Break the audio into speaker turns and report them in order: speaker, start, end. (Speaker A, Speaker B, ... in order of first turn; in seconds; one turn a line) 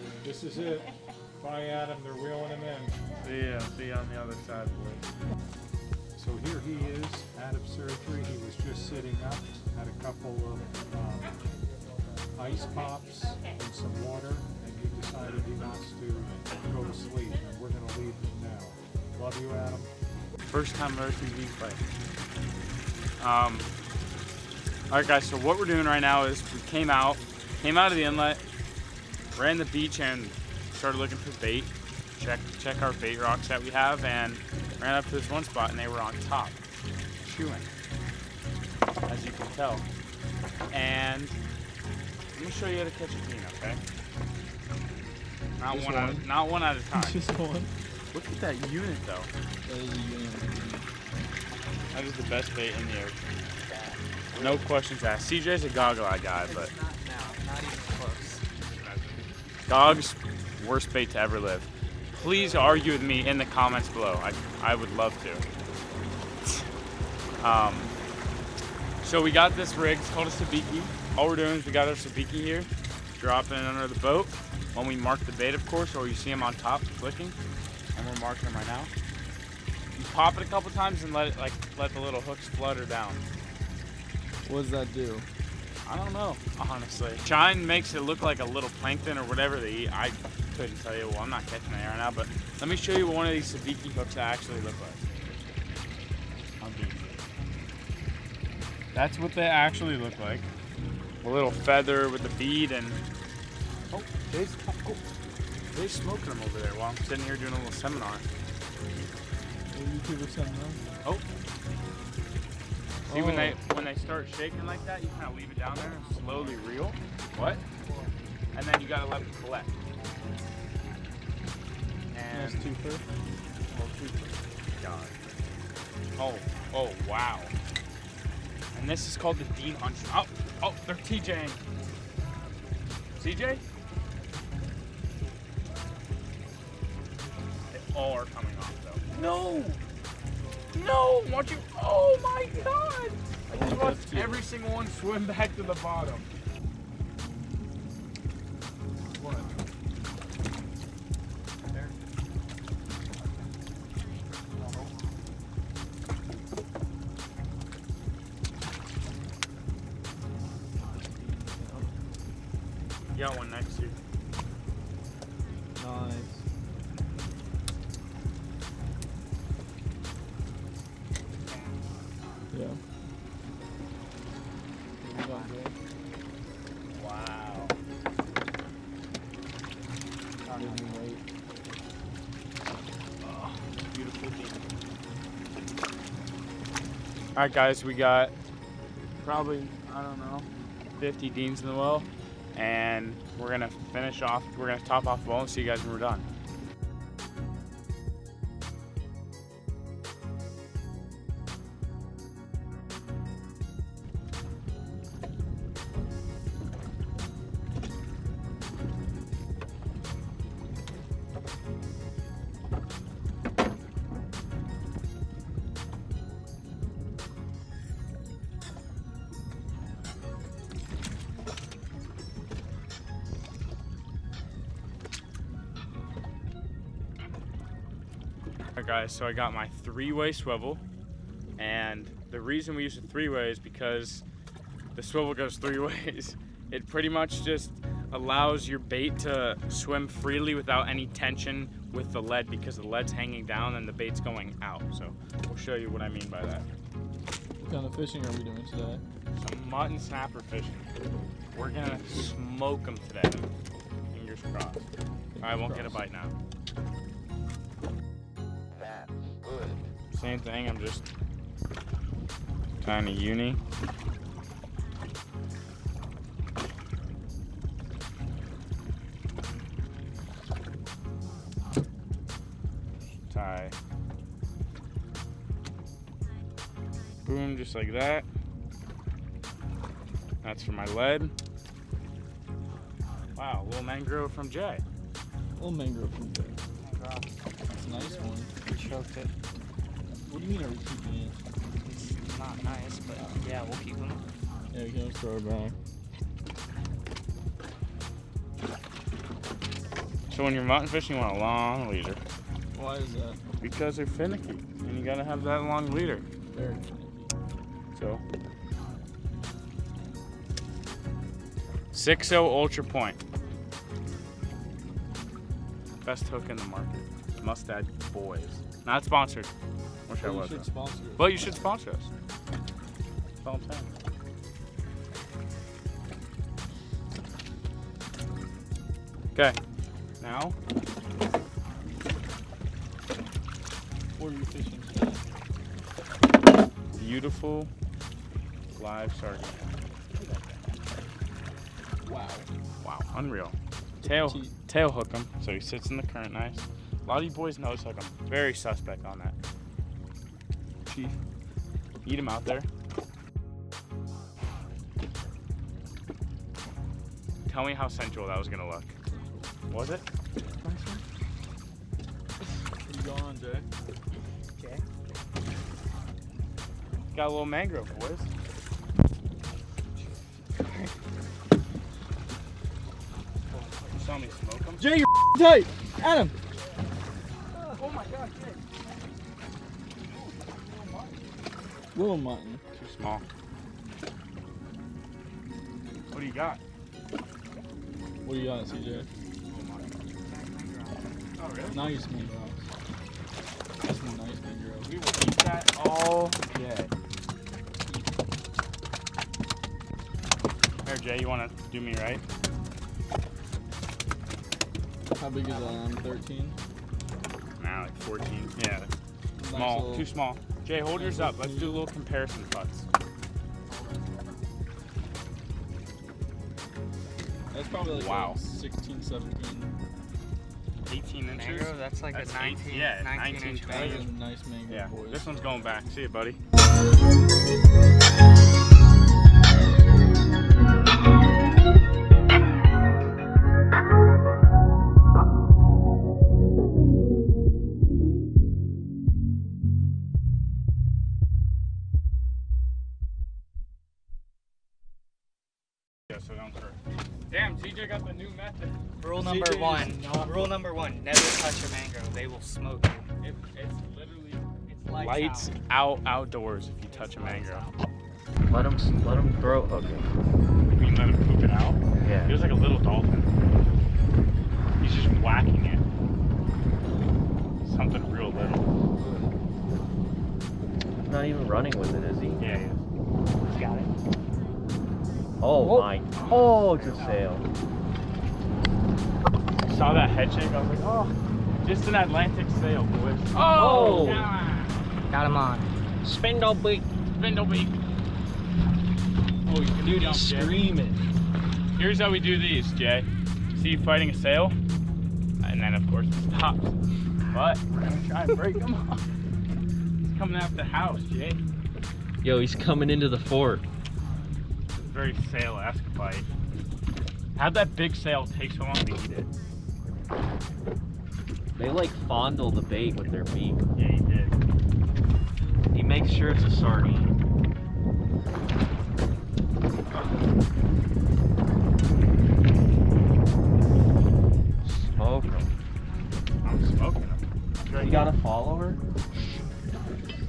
Speaker A: 0.2-3.0
Speaker B: 3.2-5.0
Speaker A: 6.2-11.4
Speaker A: 12.4-19.9
Speaker B: 20.5-21.8
Speaker B: 23.2-23.7
Speaker B: 24.9-28.4
Speaker B: 29.3-36.6
Speaker B: 37.2-37.7
Speaker B: 39.1-39.9
Speaker B: 40.7-41.4
Speaker B: 42.3-43.8
Speaker B: 45.6-47.2
Speaker C: 45.7-46.3
Speaker C: 46.9-47.7
Speaker B: 48.1-49.3
Speaker C: 49.6-50.9
Speaker B: 51.9-53.2
Speaker B: 54.4-56.7
Speaker D: 56.4-58.4
Speaker B: 58.7-65.4
Speaker B: 67.4-67.9
Speaker B: 69.0-77.4
Speaker B: 78.0-78.9
Speaker B: 80.0-83.2
Speaker C: 84.5-85.3
Speaker B: 85.8-95.0
Speaker B: 96.6-97.2
Speaker B: 98.9-100.5
Speaker B: 101.2-103.0
Speaker B: 103.9-105.0
Speaker B: 105.7-108.3
Speaker C: 109.7-110.8
Speaker C: 113.1-113.6
Speaker B: 113.1-117.6
Speaker B: 118.5-119.7
Speaker B: 122.1-122.7
Speaker C: 122.3-123.0
Speaker B: 123.7-125.2
Speaker B: 126.2-127.5
Speaker B: 128.7-131.6
Speaker B: 133.2-133.6
Speaker B: 137.7-139.8
Speaker B: 140.7-146.3
Speaker C: 143.5-144.4
Speaker E: 149.2-149.5
Speaker C: 160.7-162.0
Speaker B: 163.1-164.0
Speaker C: 165.8-166.5
Speaker D: 171.5-171.8
Speaker C: 172.5-172.8
Speaker C: 175.0-175.7
Speaker D: 175.1-175.6
Speaker B: 176.9-177.8
Speaker D: 180.4-181.0
Speaker C: 180.6-181.2
Speaker B: 183.2-184.7
Speaker B: 187.3-188.3
Speaker B: 189.2-190.5
Speaker B: 191.0-196.3
Speaker B: 228.8-230.8
Speaker B: 231.6-234.2
Speaker B: 234.9-246.7
Speaker C: 247.6-249.0
Speaker B: 249.3-250.9
Speaker B: 251.5-253.5
Speaker B: 254.1-254.9
Speaker C: 255.4-256.0
Speaker B: 255.4-256.3
Speaker B: 260.1-261.1
Speaker B: 262.8-263.6
Speaker B: 273.3-273.8
Speaker B: 277.2-278.3
Speaker B: 280.4-281.3
Speaker B: 283.4-284.8
Speaker C: 285.6-286.6
Speaker D: 286.8-287.3
Speaker C: 287.7-288.5
Speaker E: 287.9-288.3
Speaker D: 288.6-289.3
Speaker C: 290.2-291.4
Speaker D: 291.8-294.2
Speaker C: 294.7-295.8
Speaker B: 300.3-302.2
Speaker C: 302.7-303.4
Speaker B: 303.6-306.3
Speaker C: 306.5-307.3
Speaker B: 307.9-308.2
Speaker B: 311.9-313.2
Speaker B: 316.0-319.5
Speaker B: 320.1-322.1
Speaker C: 320.2-321.4
Speaker B: 323.4-323.9
Speaker B: 330.2-330.6
Speaker C: 334.2-335.2
Speaker B: 336.9-337.7
Speaker B: 338.7-339.8
Speaker C: 342.0-342.5
Speaker B: 342.8-349.4
Speaker C: 344.0-344.6
Speaker C: 350.9-351.2
Speaker B: 352.1-352.7
Speaker B: 357.5-359.0
Speaker B: 359.7-360.1
Speaker C: 362.8-363.7
Speaker D: 364.6-364.8
Speaker B: 367.1-368.3
Speaker B: 373.9-374.9
Speaker C: 374.8-376.4
Speaker B: 377.7-378.6
Speaker B: 380.1-381.2
Speaker C: 381.9-382.6
Speaker B: 382.7-383.2
Speaker B: 386.1-386.6
Speaker C: 388.2-389.1
Speaker B: 389.0-389.9
Speaker D: 390.2-391.3
Speaker B: 391.4-391.8
Speaker C: 391.7-392.7
Speaker C: 393.8-394.9
Speaker B: 394.8-396.9
Speaker B: 400.9-402.2
Speaker C: 405.1-406.6
Speaker D: 405.5-405.8
Speaker B: 407.6-408.9
Speaker C: 409.4-410.1
Speaker B: 409.5-412.9
Speaker C: 410.9-411.8
Speaker D: 413.7-414.4
Speaker C: 417.5-419.7
Speaker B: 417.9-418.4
Speaker B: 420.9-424.1
Speaker D: 421.3-424.1
Speaker C: 423.7-425.3
Speaker B: 424.7-426.4
Speaker B: 446.1-446.8
Speaker B: 447.3-448.8
Speaker D: 449.0-453.1
Speaker C: 449.4-450.3
Speaker B: 453.2-457.7
Speaker D: 454.7-455.5
Speaker D: 456.9-457.8
Speaker E: 458.5-460.1
Speaker B: 460.8-463.3
Speaker E: 462.0-462.4
Speaker B: 464.8-465.8
Speaker B: 467.6-468.7
Speaker E: 471.1-472.4
Speaker B: 472.4-472.8
Speaker D: 473.5-473.9
Speaker E: 475.4-477.5
Speaker D: 475.6-475.9
Speaker B: 476.2-477.1
Speaker D: 476.9-477.3
Speaker B: 479.6-484.8
Speaker E: 483.5-484.3
Speaker D: 485.1-485.7
Speaker E: 486.0-486.9
Speaker B: 487.1-487.7
Speaker B: 489.5-490.6
Speaker E: 489.8-491.0
Speaker B: 491.8-494.6
Speaker B: 495.4-496.8
Speaker B: 497.3-499.0
Speaker B: 500.0-501.4
Speaker E: 502.2-503.6
Speaker B: 504.8-506.3
Speaker B: 507.4-509.3
Speaker E: 511.6-513.6
Speaker B: 513.8-514.4
Speaker E: 515.7-517.2
Speaker E: 524.6-525.5
Speaker B: 526.4-528.1
Speaker E: 527.7-528.8